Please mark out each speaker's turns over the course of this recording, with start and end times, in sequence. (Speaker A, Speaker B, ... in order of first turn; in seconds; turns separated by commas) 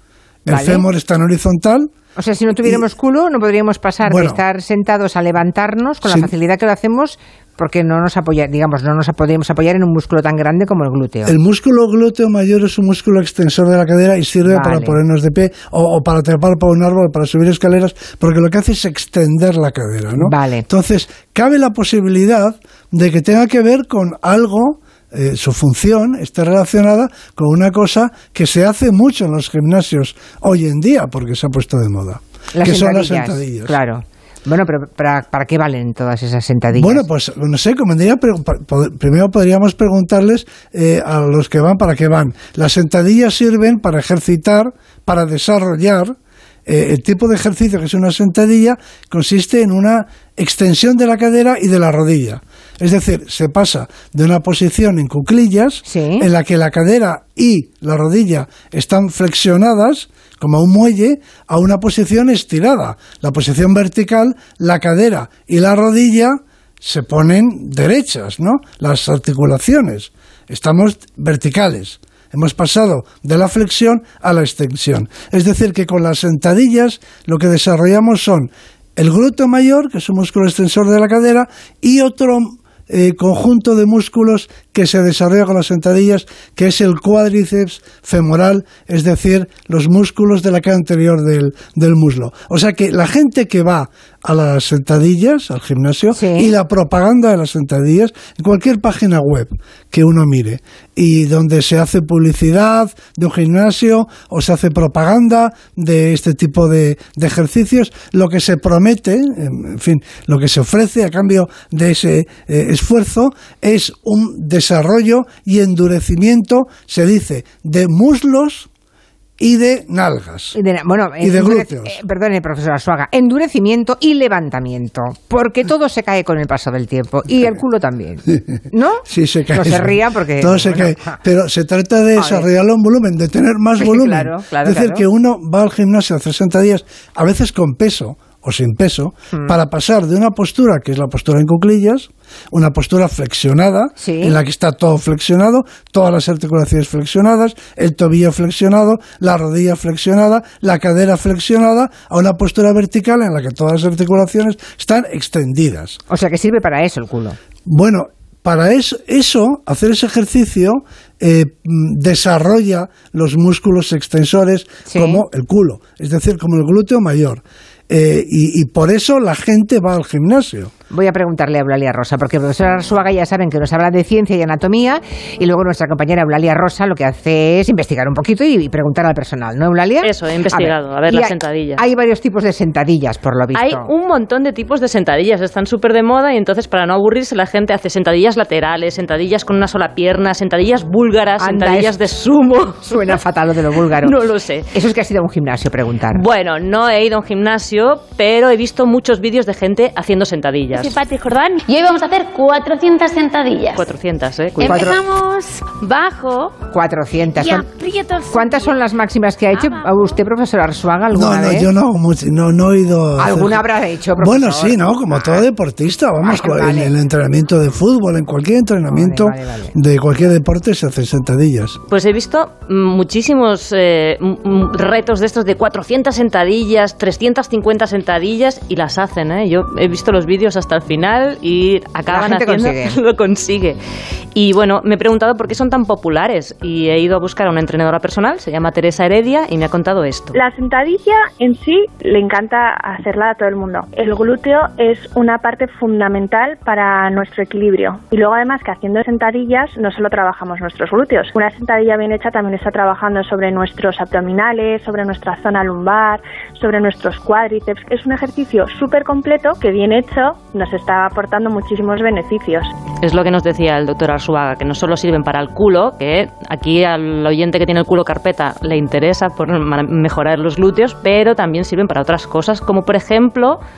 Speaker A: 0.5-1.9, Speaker B: 0.5-0.8, Speaker B: 2.1-11.3, Speaker A: 2.6-2.8, Speaker A: 4.0-4.4, Speaker A: 6.0-6.3, Speaker A: 11.2-33.8, Speaker B: 14.4-15.0, Speaker B: 20.2-20.6, Speaker B: 32.5-37.0, Speaker A: 36.7-118.7, Speaker B: 55.9-56.3, Speaker B: 96.1-96.5, Speaker A: 119.4-120.5, Speaker B: 120.5-131.2, Speaker A: 121.2-122.0, Speaker A: 128.3-156.0, Speaker B: 132.2-132.5, Speaker B: 133.8-135.0, Speaker B: 144.0-144.4, Speaker B: 156.1-157.4, Speaker A: 157.6-170.7, Speaker B: 164.8-165.2, Speaker B: 170.9-183.9, Speaker C: 180.0-181.8, Speaker C: 183.5-193.2, Speaker B: 191.4-191.9, Speaker B: 192.8-194.1, Speaker C: 194.0-194.7, Speaker B: 194.7-196.2, Speaker C: 196.1-200.9, Speaker D: 200.7-203.8, Speaker C: 203.7-204.9, Speaker B: 204.6-204.9, Speaker D: 204.6-206.6, Speaker B: 206.7-207.7, Speaker D: 207.3-208.8, Speaker B: 208.3-211.7, Speaker D: 209.5-210.1, Speaker A: 211.1-213.6, Speaker B: 213.2-215.4, Speaker A: 214.2-221.8, Speaker B: 216.2-216.9, Speaker B: 218.9-219.7, Speaker C: 221.9-233.8, Speaker B: 232.1-233.0, Speaker C: 234.3-240.3, Speaker E: 240.3-262.7, Speaker C: 263.0-273.6